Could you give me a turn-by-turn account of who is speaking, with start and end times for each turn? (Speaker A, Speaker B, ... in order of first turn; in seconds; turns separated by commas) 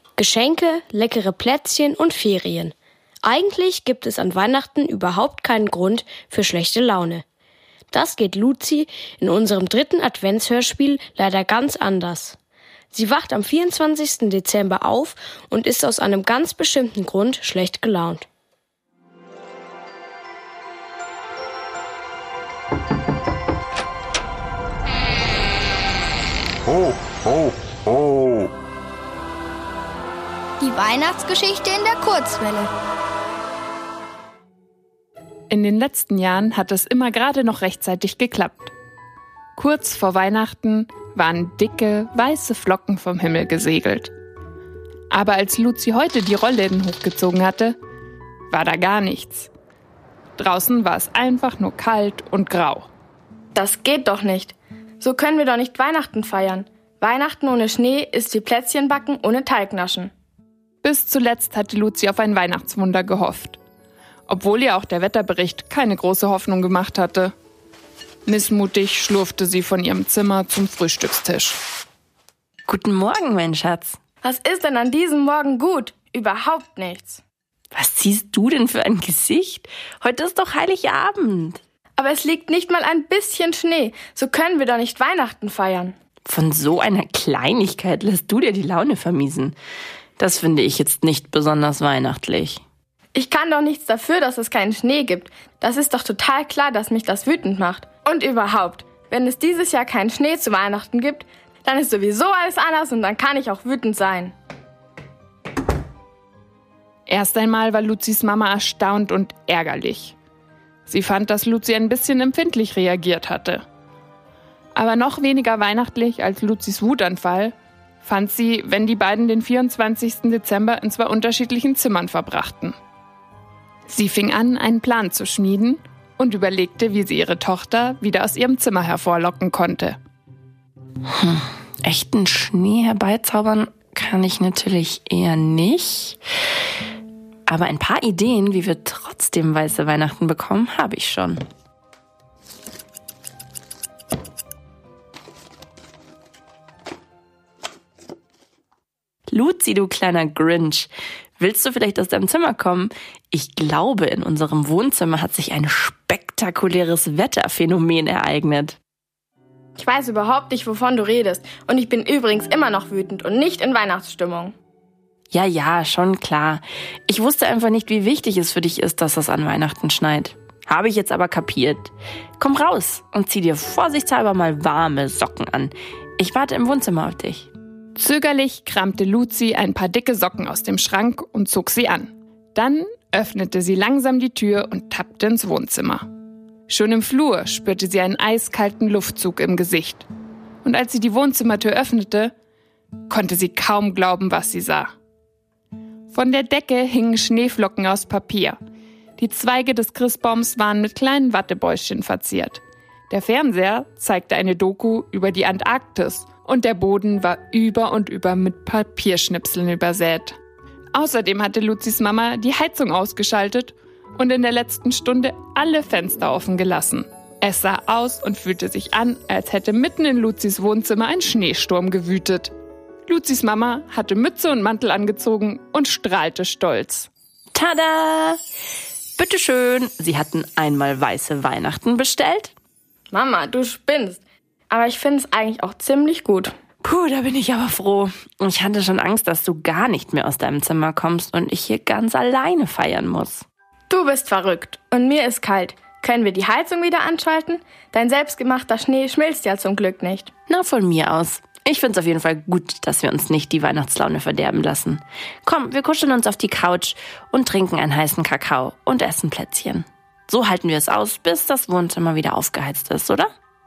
Speaker A: 0.2-7.2, Speaker A: 7.9-12.4, Speaker A: 12.9-18.2, Speaker B: 30.6-32.7, Speaker C: 35.5-38.7, Speaker C: 39.5-44.1, Speaker C: 45.1-47.8, Speaker C: 48.5-49.5, Speaker C: 50.4-52.9, Speaker D: 53.5-60.1, Speaker C: 60.8-63.6, Speaker C: 64.3-67.3, Speaker C: 68.2-71.6, Speaker E: 72.7-74.0, Speaker D: 74.2-77.2, Speaker E: 77.7-81.6, Speaker D: 82.0-85.9, Speaker E: 86.2-89.5, Speaker E: 90.2-92.6, Speaker D: 93.2-104.3, Speaker C: 107.1-110.2, Speaker C: 110.9-113.6, Speaker C: 114.7-122.7, Speaker C: 123.9-130.0, Speaker E: 131.1-136.2, Speaker E: 137.5-141.4, Speaker E: 149.3-158.8, Speaker D: 159.8-164.5, Speaker E: 165.3-177.5, Speaker C: 177.9-186.0, Speaker C: 186.7-190.1, Speaker C: 190.6-192.3, Speaker C: 193.1-194.9, Speaker C: 196.1-198.6, Speaker C: 199.2-210.4, Speaker C: 210.9-222.5, Speaker C: 223.1-227.1, Speaker E: 227.5-228.4, Speaker E: 229.2-232.5, Speaker D: 233.1-236.5, Speaker E: 236.8-243.4, Speaker D: 243.9-250.3, Speaker E: 250.5-263.3